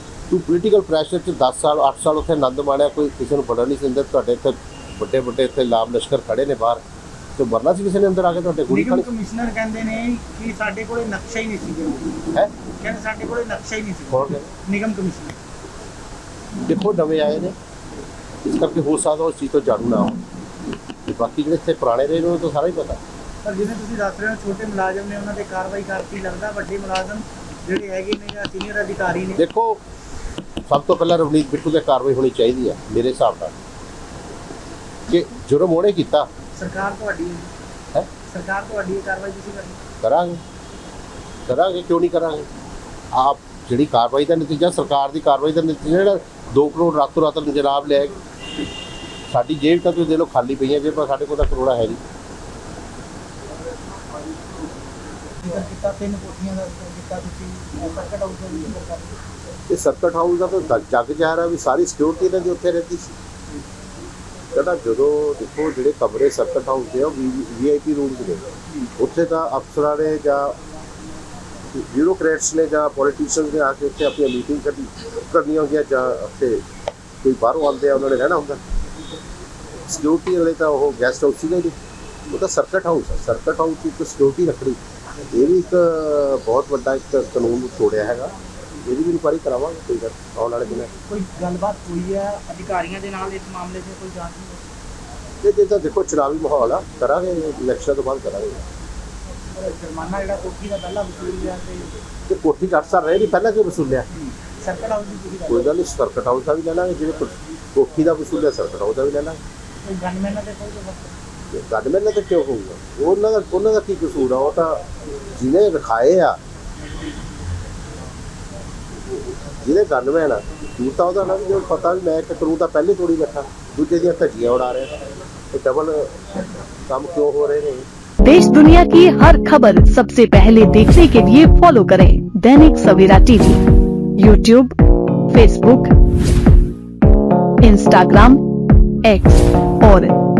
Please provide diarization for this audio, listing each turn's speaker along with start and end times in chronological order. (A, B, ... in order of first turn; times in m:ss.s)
0:00.3-0:06.8 A
0:07.4-0:09.1 A
0:08.7-0:12.2 B
0:12.8-0:15.4 B
0:14.1-0:14.5 A
0:16.7-0:17.6 A
0:18.4-0:20.2 A
0:21.1-0:23.0 A
0:23.4-0:29.4 B
0:29.4-0:29.8 A
0:30.7-0:33.6 A
0:35.1-0:36.3 A
0:36.6-0:37.5 B
0:38.2-0:39.8 B
0:40.0-0:40.4 A
0:41.5-0:42.5 A
0:43.1-0:48.2 A
0:49.3-0:52.0 A
0:55.4-0:59.2 B
0:59.7-1:03.2 A
1:04.5-1:08.5 A
1:09.0-1:10.6 A
1:11.7-1:16.6 A
1:17.2-1:18.6 A
1:19.9-1:21.8 A
1:22.3-1:24.8 A
1:25.3-1:28.3 A
1:28.9-1:30.9 A
1:30.7-1:34.6 B
1:35.4-1:38.6 A
1:39.5-1:41.9 B
1:42.3-1:44.1 A
1:44.4-1:45.8 B
1:45.5-1:49.4 A
1:49.8-1:51.1 B
1:51.5-1:54.8 A
1:55.3-1:56.4 A
1:59.3-2:04.9 A
2:05.5-2:06.4 A
2:06.9-2:07.9 A
2:08.2-2:13.6 C
2:14.2-2:14.8 C
2:15.3-2:15.9 C
2:17.6-2:18.4 C
2:19.0-2:20.2 C